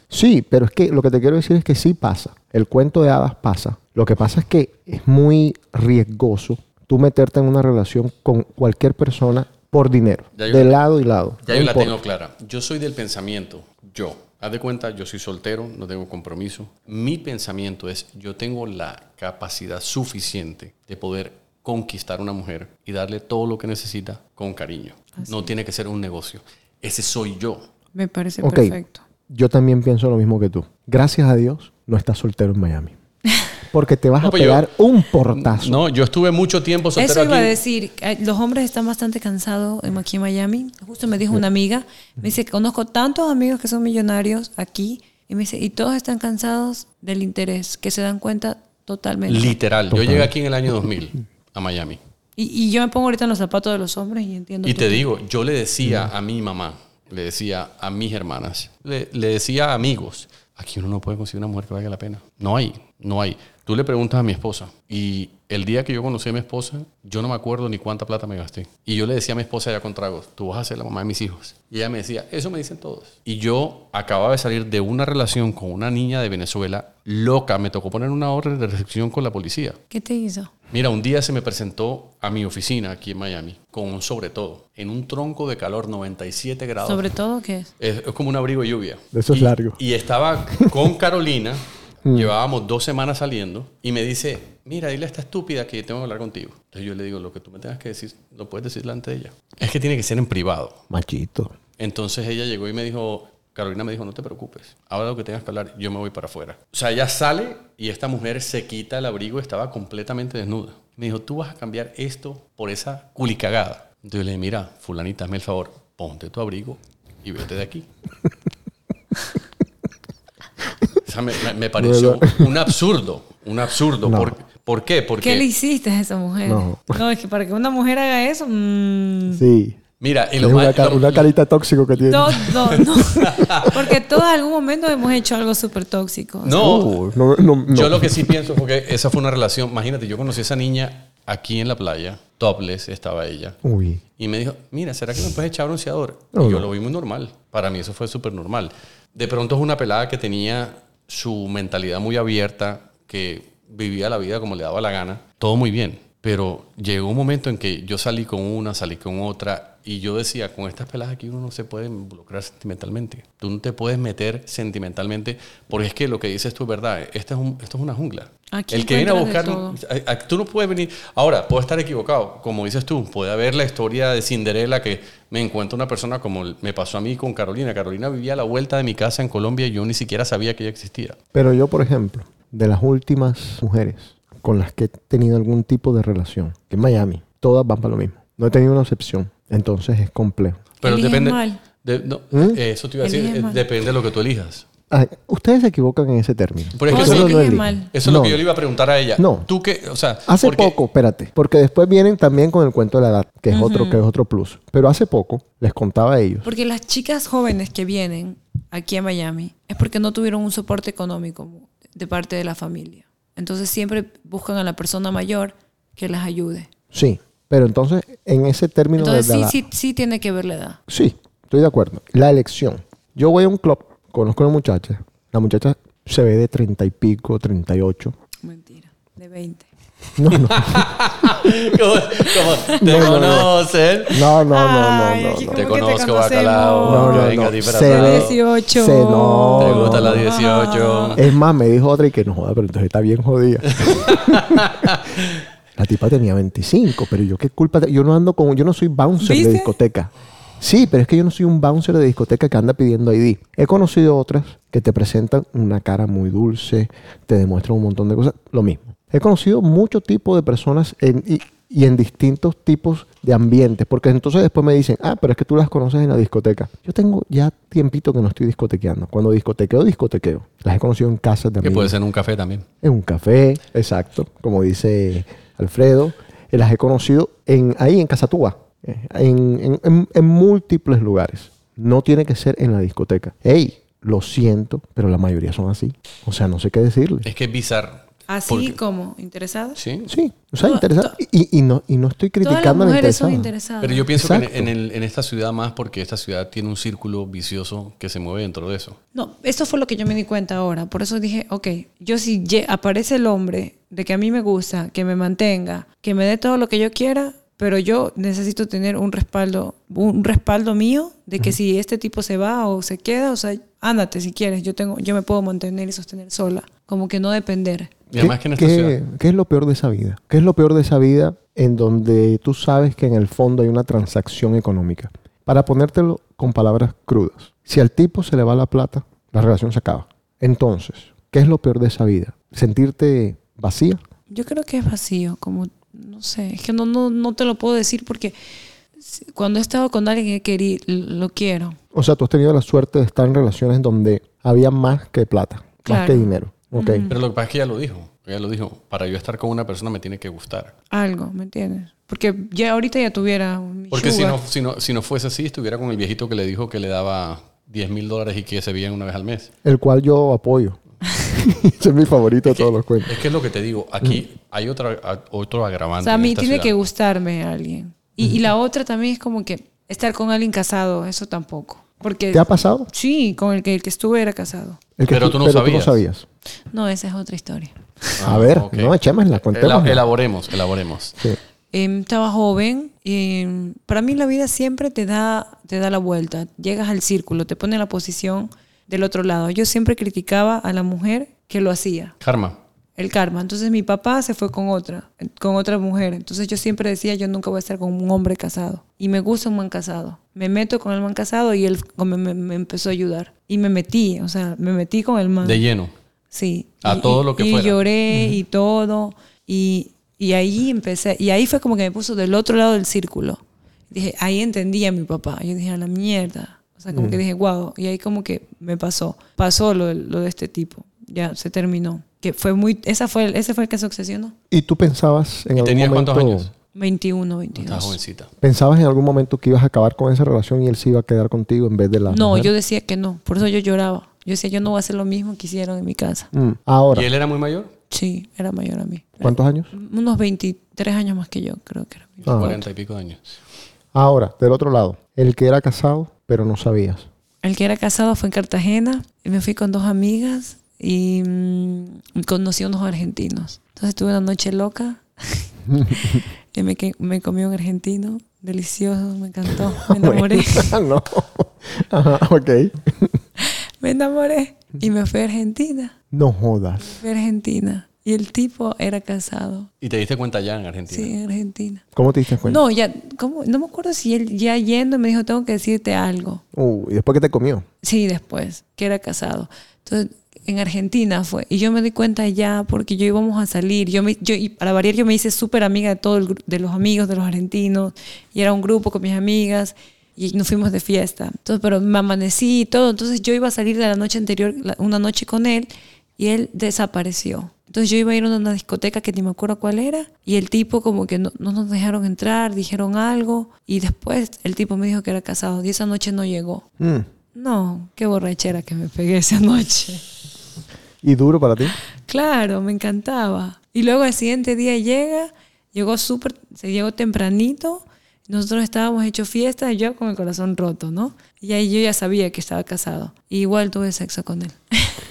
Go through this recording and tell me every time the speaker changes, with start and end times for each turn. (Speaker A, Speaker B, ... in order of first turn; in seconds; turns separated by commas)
Speaker A: 0.1-11.9, Speaker B: 10.3-10.7, Speaker B: 11.5-27.6, Speaker C: 27.9-29.0, Speaker A: 28.4-28.8, Speaker A: 29.3-32.9, Speaker A: 33.7-35.8, Speaker B: 34.2-34.7, Speaker B: 35.3-37.5, Speaker C: 37.0-49.6, Speaker B: 49.3-52.0, Speaker A: 49.9-50.3, Speaker C: 52.4-55.0, Speaker B: 54.6-79.8, Speaker C: 79.9-80.5, Speaker B: 80.7-87.1, Speaker C: 86.8-87.7, Speaker B: 87.8-100.8, Speaker A: 89.1-89.8, Speaker A: 92.0-92.3, Speaker A: 100.9-101.5, Speaker B: 101.8-117.9, Speaker B: 121.0-125.5, Speaker A: 121.8-122.5, Speaker A: 124.0-124.3, Speaker C: 125.2-129.4, Speaker A: 126.5-127.0, Speaker A: 129.3-129.8, Speaker B: 130.0-131.3, Speaker A: 130.4-132.7, Speaker C: 132.1-136.6, Speaker B: 132.5-133.8, Speaker B: 136.4-136.9, Speaker A: 136.5-138.3, Speaker B: 137.7-143.6, Speaker A: 143.6-144.0, Speaker B: 144.2-181.2, Speaker A: 146.3-146.7, Speaker C: 168.5-169.8, Speaker A: 181.3-190.6, Speaker B: 190.8-194.6, Speaker C: 190.8-191.6, Speaker A: 192.3-192.6, Speaker C: 193.0-193.6, Speaker A: 194.9-198.4, Speaker B: 196.8-200.8, Speaker C: 196.9-197.9, Speaker A: 199.2-199.5, Speaker A: 200.3-206.5, Speaker C: 203.5-204.0, Speaker C: 206.4-216.7, Speaker A: 216.9-219.6, Speaker C: 219.0-220.8, Speaker A: 220.9-228.1, Speaker C: 228.4-229.7, Speaker A: 230.2-230.9, Speaker B: 230.3-234.2, Speaker A: 232.8-233.5, Speaker A: 234.1-235.7, Speaker C: 234.5-237.3, Speaker B: 235.5-238.4, Speaker A: 236.8-240.2, Speaker C: 237.9-241.2, Speaker B: 239.6-241.2, Speaker A: 241.2-244.9, Speaker B: 243.7-245.2, Speaker A: 245.8-271.9, Speaker C: 249.2-249.7, Speaker B: 271.6-272.6, Speaker A: 272.8-287.3, Speaker B: 287.2-288.8, Speaker C: 288.3-289.8, Speaker B: 289.8-290.1, Speaker A: 290.1-293.5, Speaker C: 290.6-291.2, Speaker C: 292.4-294.1, Speaker B: 293.8-299.0, Speaker A: 294.1-294.7, Speaker C: 299.1-317.9, Speaker A: 318.1-334.0, Speaker B: 318.1-319.0, Speaker C: 334.3-338.3, Speaker C: 339.0-341.8, Speaker A: 341.9-347.1, Speaker C: 345.9-347.1, Speaker B: 347.1-350.7, Speaker C: 350.9-354.4, Speaker B: 353.9-359.5, Speaker A: 359.6-363.2, Speaker B: 362.4-366.7, Speaker C: 366.0-374.8, Speaker A: 372.3-372.9, Speaker A: 375.0-376.2, Speaker B: 375.1-376.0, Speaker C: 376.7-378.2, Speaker B: 378.2-381.2, Speaker A: 378.2-380.0, Speaker C: 381.7-392.1, Speaker B: 392.2-392.6, Speaker C: 393.0-405.6, Speaker B: 405.4-405.9, Speaker C: 406.3-424.3, Speaker B: 406.8-407.8, Speaker A: 408.1-408.4, Speaker A: 416.9-417.2, Speaker A: 424.5-426.5, Speaker B: 425.6-426.5, Speaker C: 426.7-428.0, Speaker B: 427.6-428.3, Speaker A: 428.4-432.5, Speaker C: 432.1-436.3, Speaker A: 436.3-437.1, Speaker B: 436.9-437.7, Speaker C: 437.9-442.6, Speaker A: 439.2-439.7, Speaker B: 442.2-443.4, Speaker A: 442.3-442.6, Speaker A: 443.9-447.1, Speaker C: 447.4-460.8, Speaker A: 455.7-456.2, Speaker A: 459.8-463.2, Speaker C: 463.4-465.9, Speaker A: 466.1-467.0, Speaker C: 466.8-469.7, Speaker B: 469.8-471.1, Speaker C: 470.9-471.8, Speaker A: 471.9-472.6, Speaker C: 472.4-476.4, Speaker A: 476.5-477.6, Speaker C: 477.8-506.6, Speaker A: 506.8-507.1, Speaker C: 507.3-510.0, Speaker A: 511.0-511.8, Speaker C: 512.0-525.0